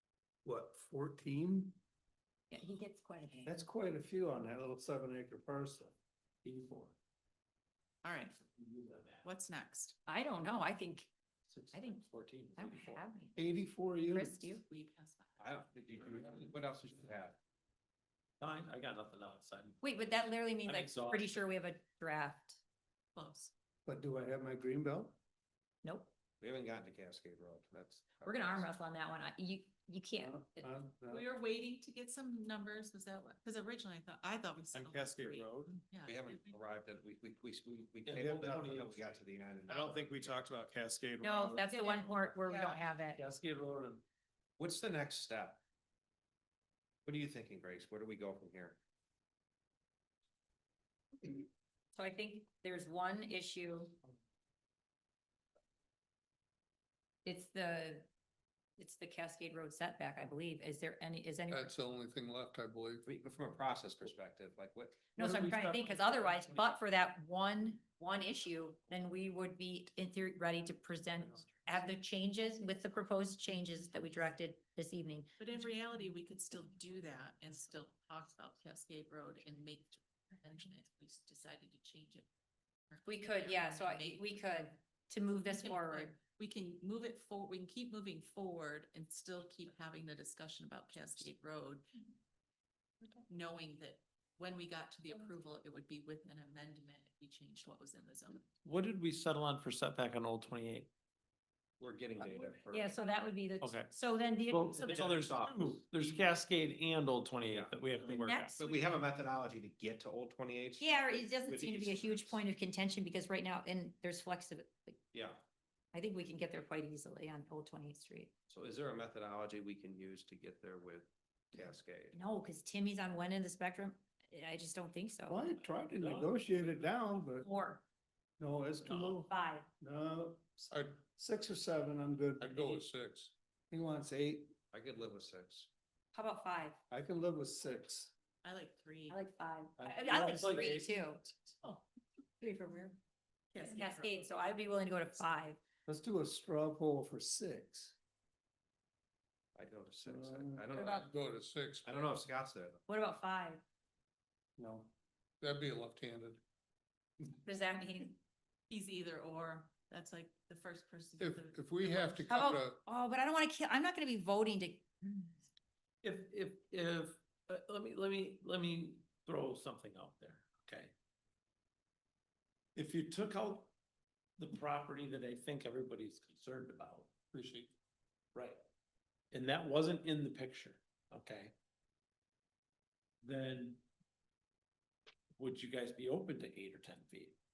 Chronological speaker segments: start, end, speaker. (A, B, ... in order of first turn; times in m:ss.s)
0:00.4-0:01.8 A
0:02.5-0:03.6 B
0:03.4-0:05.9 A
0:06.4-0:06.9 C
0:08.0-0:08.4 D
0:08.6-0:09.2 C
0:09.2-0:10.0 D
0:10.1-0:11.1 B
0:11.5-0:13.0 C
0:11.7-0:13.4 B
0:13.4-0:14.4 A
0:14.0-0:14.6 B
0:14.6-0:15.4 D
0:15.4-0:17.4 E
0:18.4-0:19.8 C
0:19.8-0:22.6 B
0:20.6-0:21.4 C
0:23.2-0:23.5 D
0:23.8-0:25.2 A
0:25.8-0:26.1 B
0:26.4-0:28.7 E
0:28.2-0:30.7 B
0:30.2-0:31.2 A
0:31.1-0:36.5 D
0:34.7-0:35.8 C
0:36.0-0:40.4 E
0:38.0-0:39.2 C
0:39.7-0:41.6 C
0:41.2-0:43.2 B
0:41.6-0:42.8 D
0:43.2-0:44.0 C
0:44.6-0:45.6 E
0:47.0-0:48.8 E
0:52.0-0:54.0 B
0:57.2-0:58.1 B
0:58.8-1:01.7 B
1:01.5-1:03.0 F
1:03.0-1:05.0 E
1:05.2-1:15.3 B
1:05.2-1:06.6 A
1:15.4-1:22.3 D
1:22.9-1:24.7 D
1:23.0-1:26.1 B
1:25.4-1:31.9 D
1:33.3-1:38.5 D
1:38.6-1:40.9 C
1:41.8-1:42.9 E
1:42.7-1:45.4 B
1:43.6-1:43.9 C
1:44.5-1:48.6 C
1:44.8-1:45.8 E
1:47.4-1:47.8 E
1:48.0-1:48.8 B
1:48.6-1:52.4 E
1:50.8-1:55.0 B
1:55.1-1:55.4 E
1:55.9-1:58.3 B
1:58.5-2:02.2 E
2:02.1-2:05.4 B
2:05.3-2:07.5 A
2:06.0-2:06.3 C
2:07.4-2:07.8 B
2:08.4-2:12.8 A
2:08.9-2:09.1 C
2:09.3-2:09.7 B
2:10.7-2:11.0 F
2:12.4-2:13.3 F
2:13.7-2:14.5 A
2:14.7-2:15.7 E
2:16.1-2:16.8 B
2:16.9-2:18.1 A
2:18.4-2:19.2 D
2:19.1-2:21.7 B
2:19.8-2:21.0 C
2:22.4-2:23.0 B
2:23.5-2:24.2 D
2:23.6-2:25.6 B
2:25.9-2:28.0 A
2:29.6-2:31.1 E
2:30.0-2:30.7 A
2:30.8-2:32.2 F
2:31.8-2:32.8 E
2:32.9-2:33.6 B
2:34.6-2:34.9 A
2:35.4-2:36.4 F
2:37.4-2:38.2 B
2:38.7-2:42.5 D
2:41.2-2:42.8 F
2:42.3-2:45.3 B
2:46.0-2:50.9 C
2:52.8-2:53.7 C
2:54.4-2:57.1 C
2:57.3-2:57.7 F
2:58.3-2:58.6 C
2:59.3-3:01.5 C
3:03.2-3:03.8 C
3:05.4-3:07.4 C